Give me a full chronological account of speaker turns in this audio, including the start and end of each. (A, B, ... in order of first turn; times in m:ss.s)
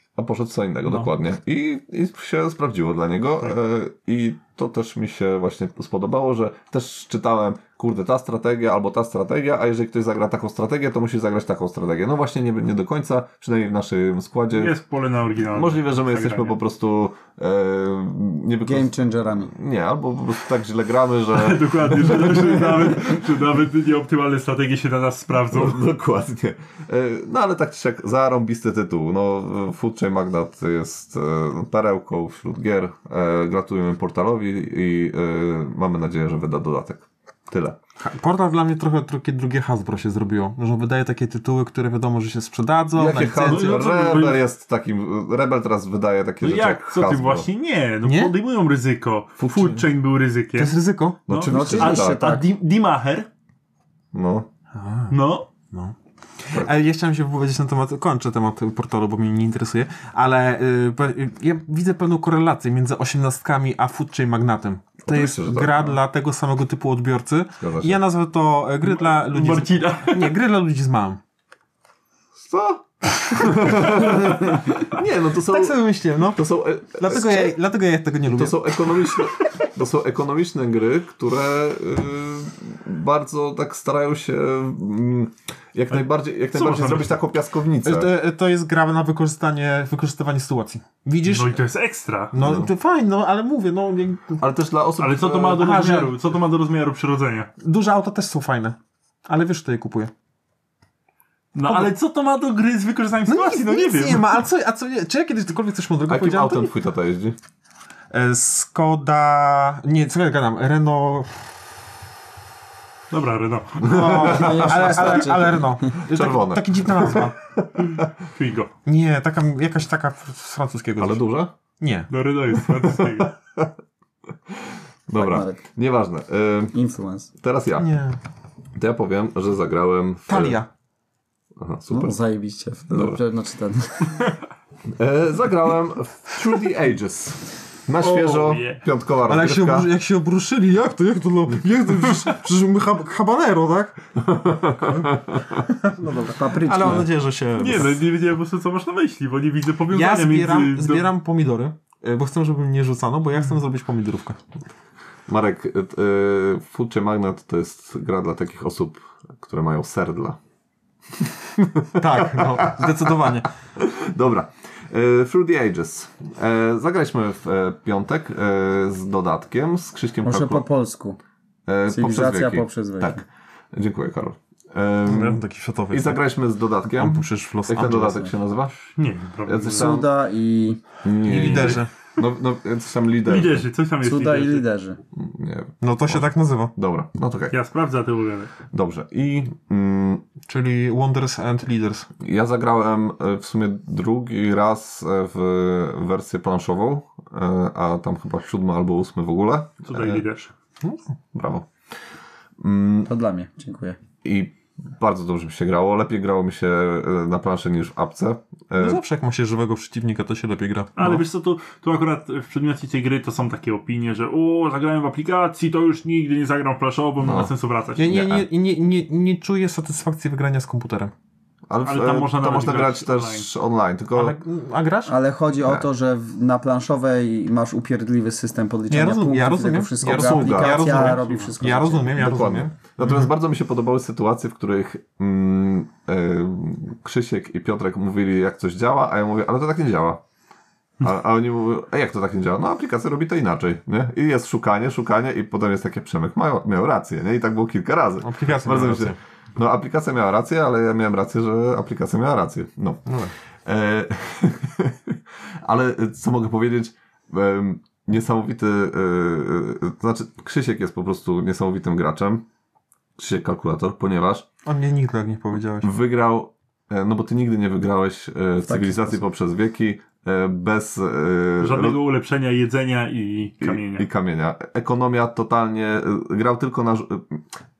0:00.2-0:14.7 A
0:14.5-0:16.6 B
0:15.5-0:18.9 A
0:18.6-0:19.5 C
0:19.4-0:23.2 A
0:21.3-0:25.8 B
0:25.5-0:37.8 A
0:38.0-0:44.2 D
0:43.0-0:47.5 A
0:43.1-0:44.4 B
0:46.4-0:53.3 B
0:48.0-0:48.3 D
0:49.4-0:49.8 A
0:50.6-0:51.2 D
0:51.3-0:52.3 A
0:51.4-0:52.4 C
0:54.1-0:54.5 A
0:54.8-0:55.2 D
0:55.1-0:55.5 B
0:55.7-1:11.2 D
1:05.0-1:06.0 A
1:07.6-1:08.0 A
1:08.8-1:10.4 B
1:12.4-1:17.6 A
1:13.8-1:14.8 D
1:15.4-1:19.2 D
1:18.3-1:28.1 A
1:26.5-1:27.2 B
1:27.8-1:31.6 D
1:31.2-1:32.3 B
1:32.3-1:34.4 D
1:32.4-1:32.7 A
1:34.4-1:35.7 A
1:35.0-1:37.5 B
1:35.6-1:36.2 D
1:37.6-1:40.1 D
1:41.5-1:44.3 B
1:41.7-1:41.9 D
1:43.3-1:46.7 D
1:46.1-1:47.4 A
1:48.1-1:51.4 D
1:53.1-1:54.4 B
1:53.8-1:58.0 A
1:53.8-1:57.4 D
1:54.2-1:55.8 C
1:58.3-1:58.7 B
1:58.9-2:01.3 D
2:01.0-2:01.5 A
2:01.8-2:02.1 D
2:02.1-2:03.3 B
2:03.2-2:03.7 A
2:04.5-2:06.8 A
2:05.1-2:05.6 C
2:06.7-2:07.3 C
2:07.4-2:07.9 A
2:07.8-2:08.2 D
2:08.8-2:10.6 A
2:10.3-2:10.7 D
2:11.6-2:12.2 A
2:11.9-2:14.3 C
2:12.9-2:13.2 A
2:14.9-2:19.9 A
2:18.0-2:18.8 B
2:19.3-2:24.0 D
2:24.2-2:25.6 A
2:24.8-2:25.1 D
2:25.6-2:28.0 D
2:26.3-2:27.1 C
2:27.6-2:31.1 B
2:29.9-2:34.4 D
2:35.3-2:40.4 A
2:41.6-2:50.6 A
2:42.0-2:43.5 D
2:50.2-2:51.2 C
2:51.7-2:58.8 A
2:51.9-2:53.2 C
2:55.0-2:56.2 D
2:56.9-2:58.3 D
2:58.9-3:00.0 B
2:59.4-3:00.1 A
2:59.7-3:00.8 C
3:01.0-3:03.7 A
3:01.2-3:01.9 D
3:03.2-3:04.7 B
3:04.0-3:05.0 C
3:05.2-3:07.6 A
3:05.8-3:06.7 D
3:07.5-3:08.5 B
3:08.7-3:10.2 A
3:10.5-3:12.1 D
3:12.2-3:20.2 A
3:19.9-3:20.5 B
3:21.3-3:21.7 A
3:22.6-3:23.1 A
3:23.1-3:24.0 C
3:24.2-3:29.0 A
3:28.8-3:31.2 D
3:31.0-3:38.2 B
3:37.2-3:37.5 A
3:38.0-3:41.1 D
3:38.0-3:38.5 A
3:41.7-3:44.4 A
3:41.8-3:43.5 B
3:44.1-3:45.2 D
3:45.1-3:52.2 C
3:48.9-3:53.1 D
3:50.0-3:51.1 A
3:51.0-3:51.5 B
3:52.1-4:00.2 A
4:01.0-4:13.1 A
4:08.2-4:09.2 D
4:13.1-4:13.3 D
4:13.6-4:22.4 A
4:23.2-4:24.5 A
4:24.6-4:25.9 D
4:25.8-4:32.0 A
4:28.7-4:29.1 C
4:31.6-4:34.1 B
4:33.6-4:37.4 A